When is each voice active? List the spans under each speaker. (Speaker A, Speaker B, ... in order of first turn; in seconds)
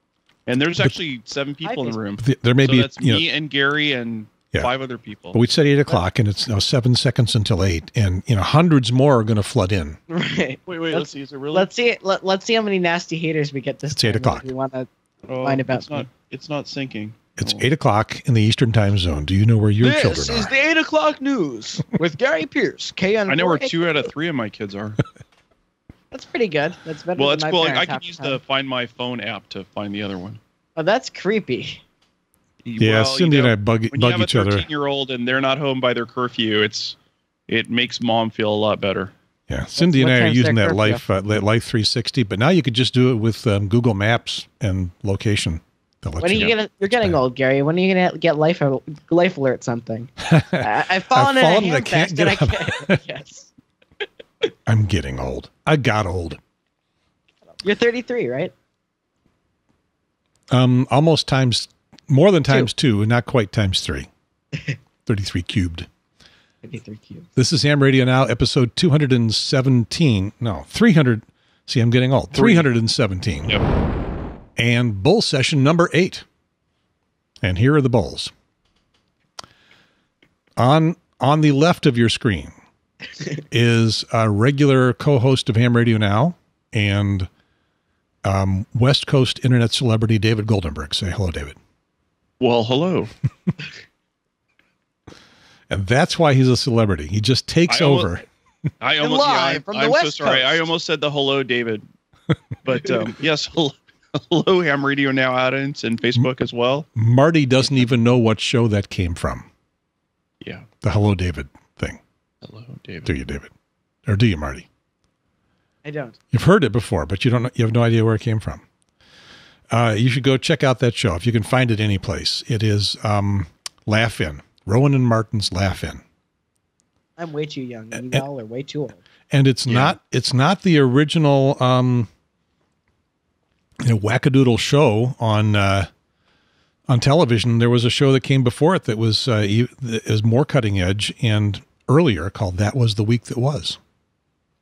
Speaker A: 0.5-5.4, 10.7-11.7, 15.3-17.7, 23.3-25.0, 27.2-30.4, 32.6-37.0, 37.5-39.1, 72.3-72.7, 92.4-93.1, 97.7-98.1, 98.8-101.8, 102.6-106.9, 110.4-110.7, 112.4-113.1, 129.7-129.9
Speaker B: 1.6-2.0, 10.1-14.9, 15.4-16.1, 19.8-24.0, 26.1-28.4, 30.8-31.8, 39.8-41.0, 46.2-53.5, 57.6-58.5, 66.6-67.3, 99.0-100.6, 115.8-116.2, 127.2-129.0
Speaker C: 2.2-3.2, 5.3-10.0, 13.9-14.4, 17.4-20.5, 32.8-34.7, 39.5-47.2, 50.2-53.0, 54.6-56.4, 60.5-64.1, 65.0-65.9, 67.3-73.6, 74.6-76.2, 77.4-78.3, 80.6-82.5, 83.5-87.3, 88.2-91.5, 95.7-98.2, 107.0-109.5, 110.8-112.0, 113.0-113.5, 114.0-114.7, 116.3-118.6, 119.7-126.0, 127.9-128.2, 129.3-132.1, 133.8-135.9, 136.9-143.8